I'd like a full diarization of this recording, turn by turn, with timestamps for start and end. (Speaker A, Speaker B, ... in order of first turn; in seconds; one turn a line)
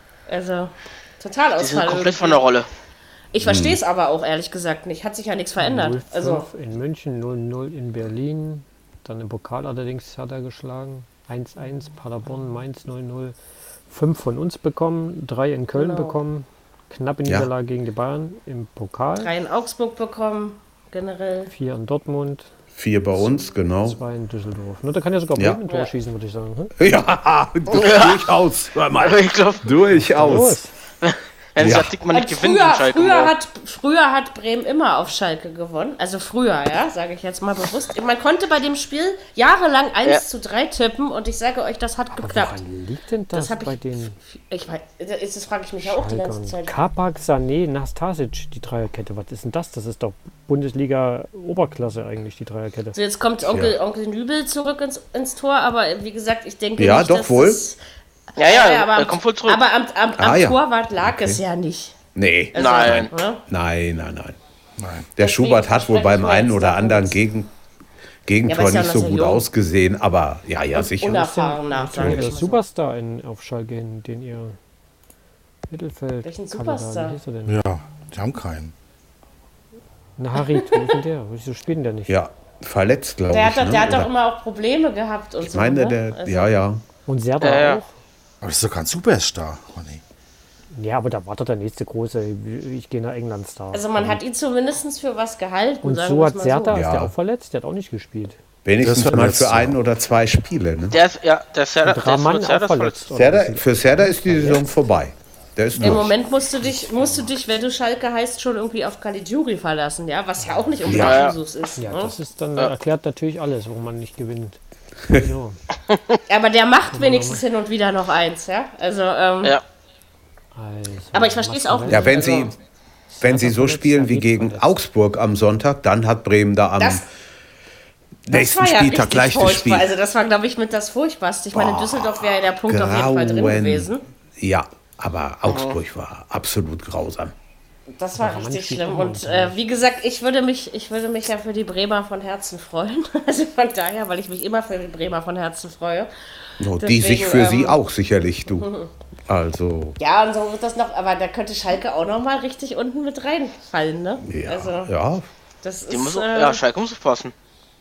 Speaker A: 0.3-2.5
Speaker B: 1.6-2.7
Speaker A: 3.3-6.5
Speaker C: 3.4-3.8
Speaker D: 5.6-13.3
Speaker D: 13.9-19.3
Speaker A: 15.7-16.2
Speaker A: 19.2-21.5
Speaker D: 21.5-22.5
Speaker C: 22.8-24.0
Speaker D: 23.2-26.7
Speaker C: 26.8-30.6
Speaker B: 27.7-28.2
Speaker B: 29.0-29.7
Speaker D: 29.9-30.7
Speaker B: 31.0-33.3
Speaker C: 31.6-32.0
Speaker A: 32.1-42.6
Speaker D: 42.1-44.2
Speaker A: 43.3-46.8
Speaker D: 45.8-53.0
Speaker A: 52.9-57.8
Speaker C: 53.5-53.8
Speaker C: 56.8-57.7
Speaker B: 58.4-59.6
Speaker A: 58.4-62.0
Speaker C: 60.2-61.4
Speaker C: 62.1-64.4
Speaker A: 62.5-63.4
Speaker B: 62.5-63.1
Speaker E: 64.8-65.1
Speaker C: 65.2-67.5
Speaker A: 65.2-67.2
Speaker C: 68.3-72.3
Speaker A: 68.5-69.4
Speaker A: 70.7-72.6
Speaker D: 71.7-74.6
Speaker D: 75.7-77.6
Speaker A: 76.2-77.2
Speaker E: 77.5-78.7
Speaker D: 80.2-82.2
Speaker C: 82.1-84.1
Speaker A: 83.3-86.5
Speaker C: 85.4-86.8
Speaker D: 87.1-87.9
Speaker B: 87.4-87.8
Speaker E: 88.4-90.0
Speaker D: 90.8-94.2
Speaker A: 93.7-96.8
Speaker D: 95.8-98.4
Speaker C: 96.7-97.1
Speaker C: 98.7-101.0
Speaker E: 98.8-99.8
Speaker B: 100.9-103.0
Speaker D: 101.8-104.7
Speaker C: 103.1-106.1
Speaker A: 105.8-112.2
Speaker D: 110.4-111.1
Speaker C: 110.9-111.3
Speaker B: 111.0-111.4
Speaker D: 111.8-115.6
Speaker A: 116.3-119.6
Speaker D: 116.9-117.4
Speaker D: 120.5-122.5
Speaker A: 121.1-122.5
Speaker C: 121.9-122.5
Speaker D: 123.1-124.8
Speaker C: 123.2-127.1
Speaker A: 126.8-127.0
Speaker C: 128.3-129.9
Speaker A: 128.3-134.0
Speaker C: 131.5-137.3
Speaker B: 135.5-135.8
Speaker A: 138.0-146.1
Speaker D: 138.2-139.6
Speaker C: 146.6-148.7
Speaker A: 146.8-147.8
Speaker A: 148.5-148.9
Speaker C: 149.3-150.0
Speaker A: 150.0-154.9
Speaker C: 154.3-155.3
Speaker A: 155.6-156.6
Speaker B: 155.9-157.3